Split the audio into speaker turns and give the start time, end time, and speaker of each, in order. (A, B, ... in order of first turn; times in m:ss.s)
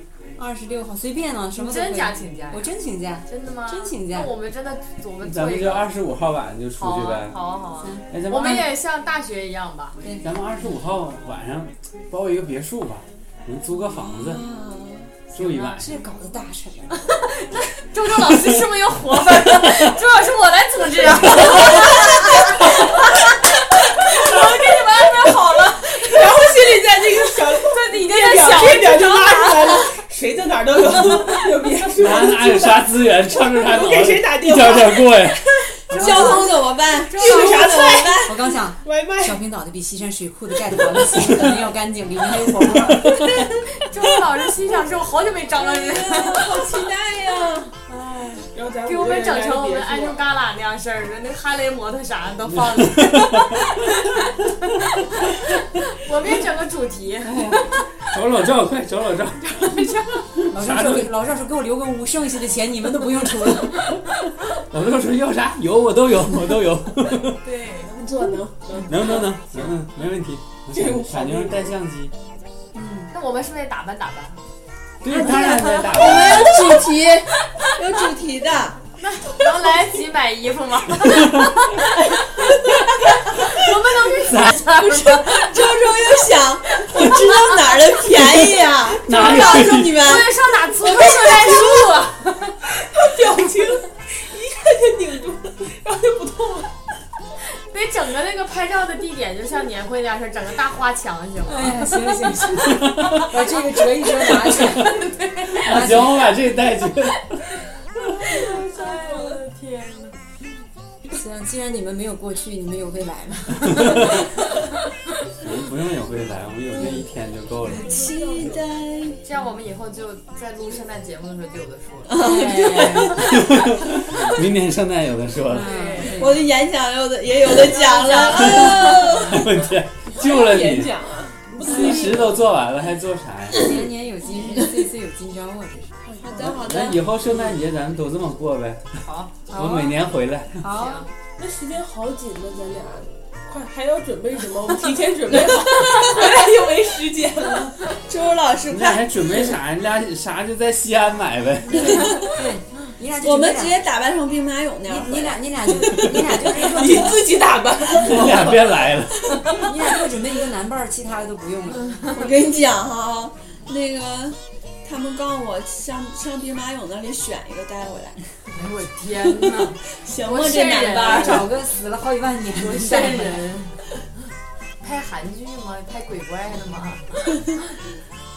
0:00.4-0:04.3 A
0:01.6-0:02.7 B
0:03.3-0:05.9 B
0:05.2-0:07.4 C
0:06.8-0:10.0 B
0:07.8-0:08.7 A
0:08.1-0:08.7 C
0:10.2-0:14.5 C
0:13.9-0:15.1 D
0:15.3-0:15.8 B
0:15.3-0:15.9 C
0:15.8-0:17.1 A
0:17.0-0:26.4 B
0:24.1-0:36.2 E
0:27.5-0:29.9 B
0:32.0-0:35.5 C
0:35.8-0:38.5 D
0:35.9-0:36.6 A
0:37.1-0:37.8 B
0:37.1-0:39.4 E
0:37.2-0:43.4 A
0:41.0-0:41.4 E
0:43.0-0:46.7 B
0:45.6-0:47.7 D
0:47.9-0:48.5 A
0:48.5-0:50.2 E
0:48.8-0:57.8 B
0:52.5-0:53.6 C
0:57.2-0:57.7 A
0:58.0-0:59.6 C
0:59.4-1:00.4 B
1:00.5-1:01.1 C
1:00.5-1:03.9 A
1:04.7-1:07.4 C
1:07.4-1:07.9 B
1:07.7-1:09.7 E
1:08.9-1:12.1 C
1:10.7-1:11.8 E
1:12.7-1:13.1 A
1:13.1-1:14.4 B
1:15.0-1:16.7 C
1:15.1-1:18.8 D
1:16.2-1:16.8 B
1:19.0-1:25.8 B
1:21.0-1:21.5 C
1:24.3-1:24.6 C
1:24.6-1:30.4 D
1:26.7-1:28.0 B
1:29.0-1:30.1 C
1:29.1-1:32.6 B
1:31.1-1:31.9 E
1:32.6-1:36.8 E
1:37.4-1:45.9 B
1:41.5-1:45.0 A
1:42.6-1:43.2 C
1:45.6-1:47.4 C
1:45.6-1:46.3 A
1:48.2-1:50.2 B
1:48.9-1:49.4 E
1:51.1-1:54.3 A
1:55.4-1:58.0 C
1:57.7-1:59.2 D
1:57.7-1:58.7 E
1:59.2-2:04.3 B
2:02.1-2:03.4 D
2:02.2-2:03.2 A
2:03.5-2:05.7 C
2:05.5-2:06.5 A
2:05.6-2:06.2 E
2:05.7-2:06.2 B
2:06.0-2:09.5 D
2:07.7-2:09.2 B
2:08.0-2:08.5 E
2:08.4-2:10.9 C
2:10.1-2:12.5 E
2:11.6-2:13.8 C
2:13.6-2:16.0 A
2:16.1-2:16.5 E
2:16.2-2:17.0 D
2:16.6-2:20.6 C
2:19.0-2:19.9 B
2:20.6-2:21.1 A
2:20.7-2:21.1 B
2:21.4-2:27.8 E
2:28.0-2:29.5 D
2:28.7-2:32.0 C
2:31.7-2:33.9 A
2:31.8-2:32.3 D
2:33.2-2:35.4 D
2:34.9-2:37.3 A
2:36.5-2:39.7 E
2:38.0-2:39.3 C
2:39.6-2:42.3 A
2:42.1-2:48.2 D
2:48.5-2:51.5 B
2:49.9-2:51.5 D
2:50.9-2:53.6 A
2:52.6-2:53.8 B
2:54.8-2:57.8 B